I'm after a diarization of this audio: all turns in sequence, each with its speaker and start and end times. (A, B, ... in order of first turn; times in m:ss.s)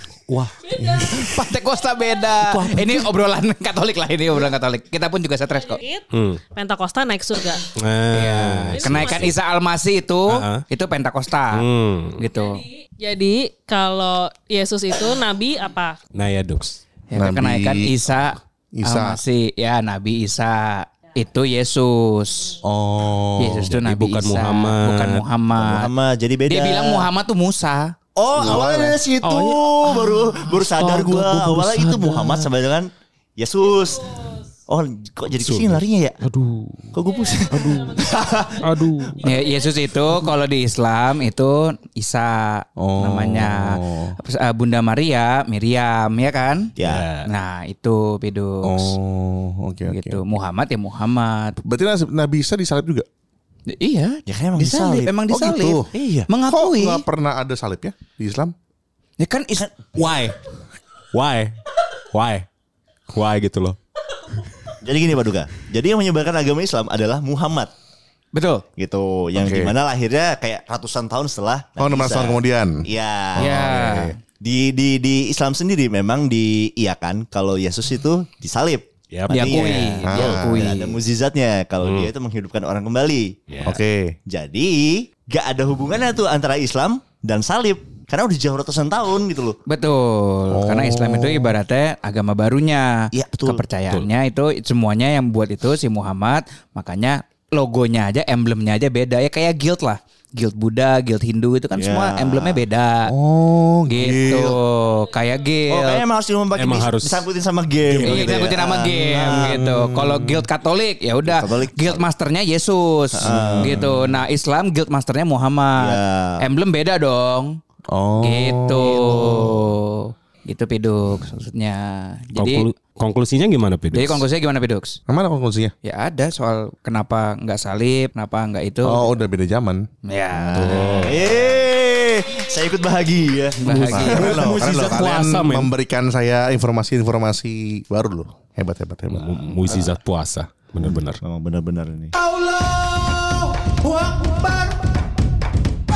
0:00.6-0:01.2 A
0:00.8-0:01.3 B
0:01.0-0:05.8 C
0:01.9-0:02.4 A
0:02.7-0:03.0 B
0:05.6-0:07.6 A
0:06.1-0:06.4 D
0:07.7-0:09.3 D
0:08.1-0:11.6 C
0:08.7-0:09.3 A
0:10.3-0:10.6 D
0:11.5-0:12.2 D
0:12.2-0:12.6 C
0:12.6-0:16.0 A
0:16.1-0:16.8 D
0:17.1-0:22.6 C
0:17.2-0:18.0 B
0:18.7-0:19.2 B
0:22.6-0:23.7 B
0:23.4-0:25.9 C
0:23.6-0:25.2 D
0:25.6-0:27.1 E
0:26.5-0:29.0 C
0:28.2-0:36.2 E
0:29.2-0:32.4 D
0:35.4-0:36.9 D
0:36.9-0:38.8 E
0:37.3-0:38.2 A
0:37.5-0:38.0 D
0:38.6-0:39.2 D
0:39.1-0:39.9 A
0:39.2-0:46.7 C
0:42.8-0:44.2 B
0:46.8-0:47.0 E
0:46.8-0:47.3 D
0:47.2-0:48.9 C
0:48.6-0:50.2 B
0:49.9-0:51.6 C
0:51.6-0:53.0 B
0:53.7-0:57.0 C
0:54.3-0:55.1 E
0:55.3-0:55.9 B
0:55.9-0:56.3 E
0:56.5-0:58.5 B
0:59.2-0:59.7 C
0:59.9-1:00.4 D
1:01.1-1:02.5 D
1:03.1-1:03.8 D
1:04.8-1:07.7 E
1:08.3-1:08.6 C
1:08.8-1:13.6 E
1:09.3-1:09.7 B
1:11.8-1:12.8 B
1:13.4-1:14.2 C
1:13.4-1:14.2 B
1:14.4-1:23.7 E
1:19.1-1:19.9 D
1:19.3-1:21.0 C
1:20.1-1:20.7 B
1:21.8-1:22.1 D
1:23.5-1:23.8 D
1:23.6-1:24.1 B
1:24.3-1:29.6 E
1:29.6-1:43.1 C
1:30.5-1:31.6 B
1:33.1-1:33.6 E
1:41.7-1:42.6 E
1:43.1-1:44.6 B
1:43.9-1:46.0 C
1:45.7-1:49.6 E
1:46.5-1:47.3 D
1:47.9-1:48.4 D
1:48.0-1:57.6 C
1:49.0-1:50.4 B
1:51.2-1:52.0 E
1:53.1-1:53.8 E
1:53.2-1:54.2 B
1:55.8-1:56.4 E
1:57.9-1:59.6 B
1:58.2-2:02.7 C
2:02.4-2:04.2 D
2:03.9-2:05.0 C
2:05.1-2:05.7 B
2:05.8-2:09.0 C
2:08.8-2:09.9 B
2:10.0-2:11.3 C
2:10.3-2:14.9 E
2:10.5-2:11.3 D
2:13.6-2:14.3 C
2:13.6-2:15.7 D
2:13.9-2:19.8 B
2:19.1-2:21.2 D
2:21.2-2:22.1 E
2:23.7-2:24.2 C